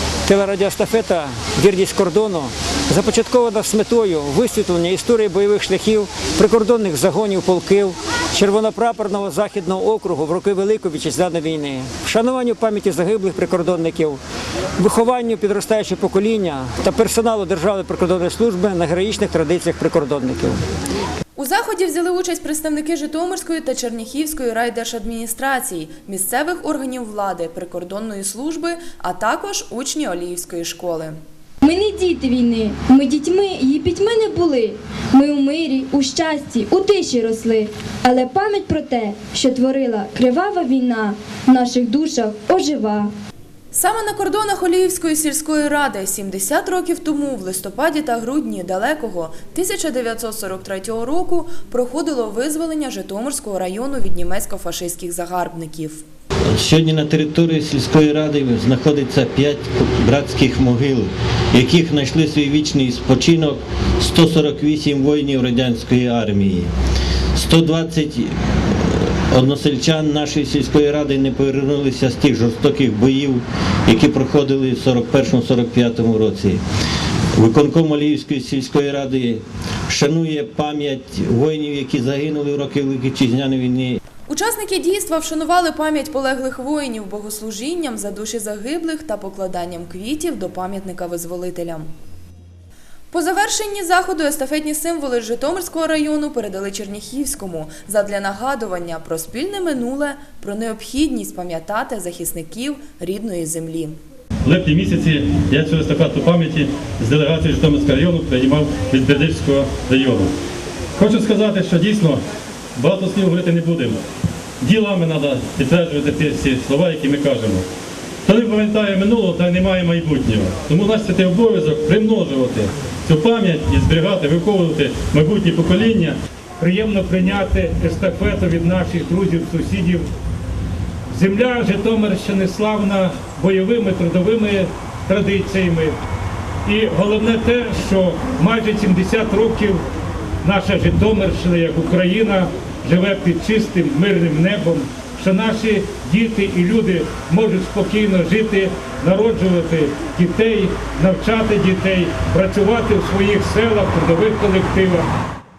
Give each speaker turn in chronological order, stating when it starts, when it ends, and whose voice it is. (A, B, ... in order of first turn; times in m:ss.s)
0:00.3-0:14.2 A
0:14.8-0:20.6 A
0:21.4-0:31.2 B
0:31.6-0:43.1 C
0:43.7-0:56.0 B
0:56.6-1:06.7 D
1:07.3-1:16.6 D
1:17.4-1:24.0 D
1:24.3-1:31.9 B
1:33.1-1:43.9 B
1:44.4-1:50.3 E
1:51.0-1:52.2 E
1:52.8-1:54.0 E
1:54.6-1:57.6 E
1:58.2-2:06.1 E
2:06.6-2:10.1 F
2:11.1-2:16.0 F
2:16.6-2:19.8 F
2:20.4-2:35.1 F